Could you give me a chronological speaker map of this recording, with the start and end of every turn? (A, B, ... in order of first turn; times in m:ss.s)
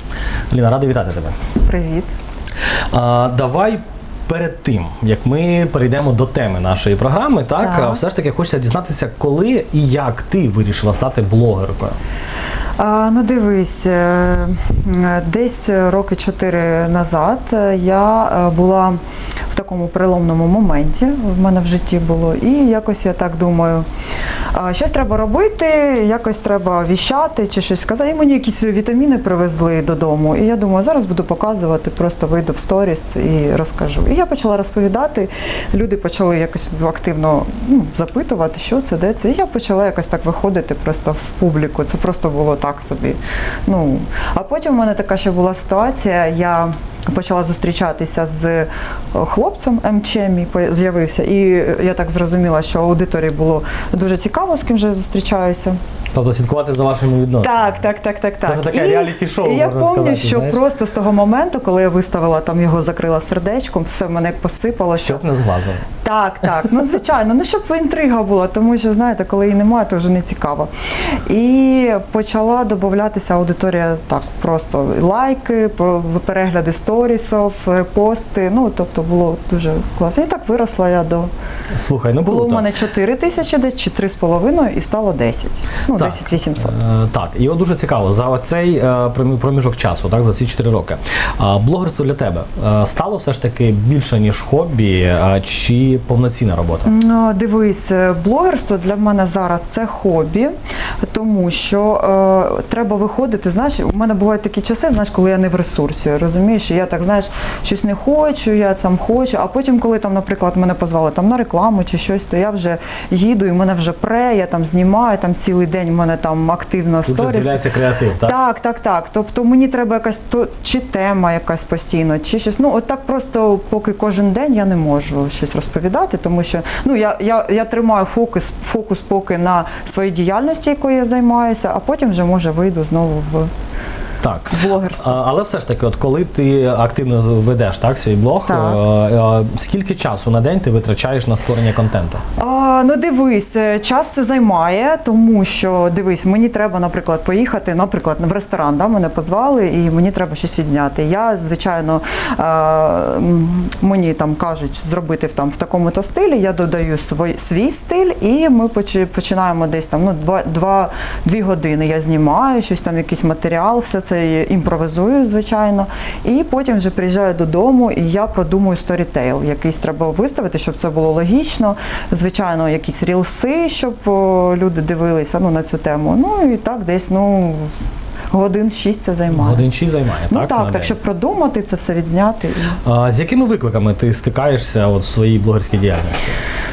0:00.5-0:01.4 A
0:01.6-0:02.1 B
0:02.9-0:11.9 A
0:07.6-0:08.0 B
0:12.8-0:19.0 B
0:19.5-0:23.8 B
0:24.5-0:55.8 B
0:56.1-0:57.7 A
0:57.4-1:05.2 B
0:58.4-1:00.6 A
1:04.9-1:05.8 A
1:06.0-1:10.7 B
1:11.2-1:21.3 B
1:21.7-1:22.7 A
1:22.2-1:26.7 B
1:25.9-1:36.9 A
1:36.8-1:57.7 B
1:57.0-1:58.4 A
1:58.2-2:13.5 B
2:14.2-2:22.2 A
2:14.5-2:15.2 B
2:18.4-2:18.8 B
2:22.4-2:57.7 B
2:58.3-2:59.7 B
2:59.3-3:00.9 A
3:00.3-3:02.8 B
3:02.8-3:06.4 A